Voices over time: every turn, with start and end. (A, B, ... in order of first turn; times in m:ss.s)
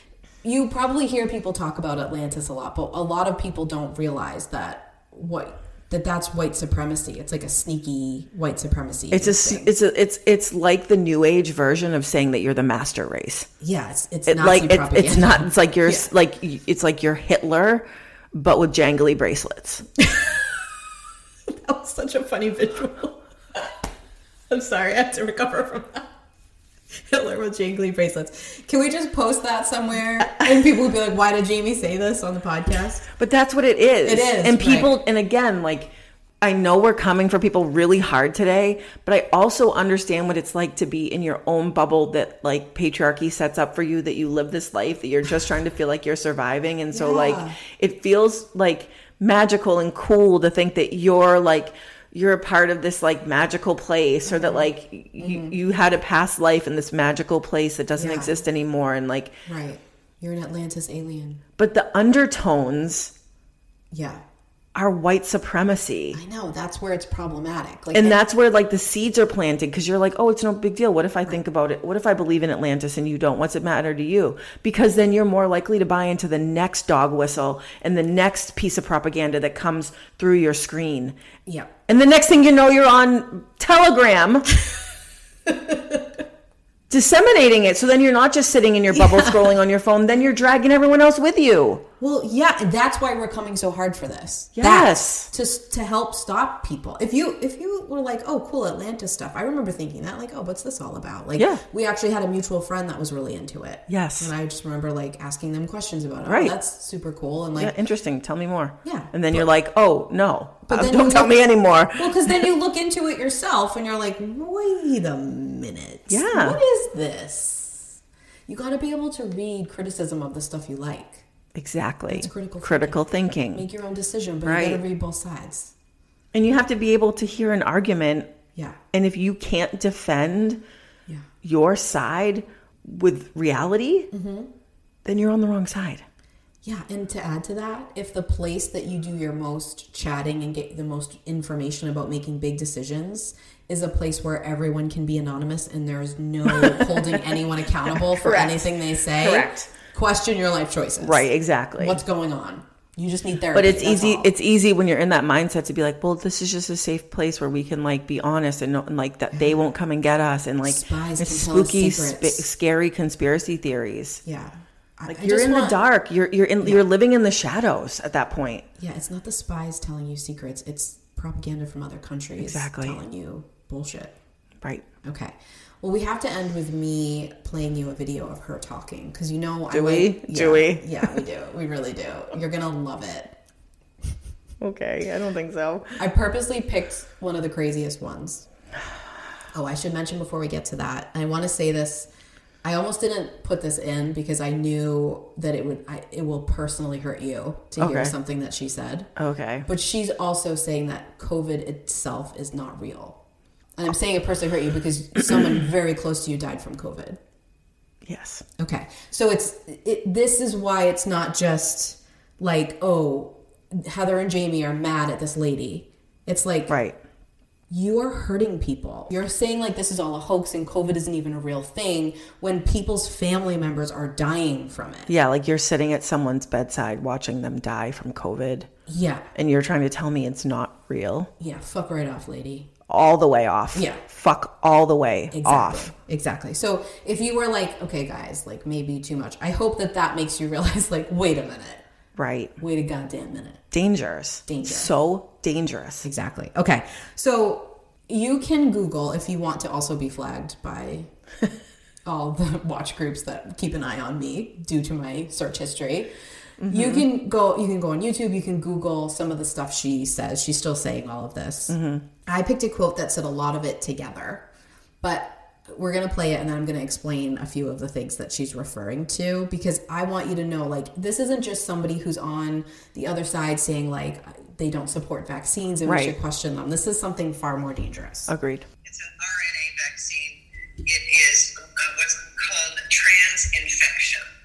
0:00.4-0:09.7 A
0:09.1-0:13.5 B
0:13.6-0:16.1 A
0:14.3-0:19.9 B
0:20.0-0:20.6 A
0:21.5-0:23.7 A
0:24.5-0:26.1 A
0:27.1-0:33.1 A
0:33.2-0:59.4 B
0:34.0-0:34.9 A
0:46.9-0:47.6 A
0:54.3-0:55.6 A
0:58.0-0:58.4 A
0:59.5-1:01.4 A
1:01.6-1:03.1 B
1:03.9-1:04.2 A
1:04.8-1:06.2 B
1:06.1-1:08.2 A
1:07.9-1:21.2 B
1:21.5-1:21.7 A
1:21.9-1:24.5 B
1:25.5-1:26.0 A
1:26.9-1:31.8 B
1:28.9-1:29.5 A
1:32.0-1:47.7 A
1:34.6-1:35.3 B
1:43.9-1:44.3 B
1:46.3-1:46.6 B
1:47.6-1:52.5 B
1:48.8-1:49.5 A
1:50.7-1:51.4 A
1:52.0-1:57.9 A
1:56.1-1:56.6 B
1:58.5-2:01.2 A
2:01.6-2:03.7 B
2:02.1-2:05.7 A
2:04.4-2:04.8 B
2:06.3-2:08.3 B
2:08.9-2:10.6 B
2:11.4-2:14.1 B
2:14.1-2:14.5 A
2:15.0-2:16.0 B
2:16.6-2:34.3 A
2:26.5-2:29.7 B
2:31.0-2:32.0 B
2:33.5-2:44.2 B
2:39.3-2:39.6 A
2:40.6-2:42.5 A
2:44.2-2:45.8 A
2:45.1-2:48.7 B
2:48.8-2:54.2 A
2:52.4-2:53.0 B
2:54.6-2:54.9 B
2:55.0-3:03.4 A
2:59.7-3:01.2 B
3:04.6-3:06.0 B
3:06.0-3:08.5 A
3:09.5-3:12.1 A
3:12.6-3:19.1 A
3:17.8-3:18.2 B
3:19.2-3:19.7 B
3:19.6-3:23.2 A
3:23.8-3:27.2 A
3:25.3-3:25.6 B
3:28.0-3:28.4 B
3:28.6-3:36.8 A
3:36.7-3:37.0 B
3:37.7-3:45.1 A
3:45.1-3:48.7 B
3:48.9-3:49.3 A
3:49.3-3:51.3 B
3:51.4-3:52.7 A
3:52.9-3:55.9 B
3:53.7-3:54.0 A
3:55.3-4:01.8 A
4:02.2-4:02.5 B
4:02.6-4:03.6 A
4:03.7-4:06.1 B
4:04.5-4:04.9 A
4:06.0-4:11.1 A
4:12.0-4:16.1 A
4:16.6-4:17.1 B
4:16.7-4:24.4 A
4:21.7-4:22.1 B
4:25.0-4:38.3 A
4:35.8-4:36.2 B
4:38.3-4:38.7 B
4:38.8-4:44.3 C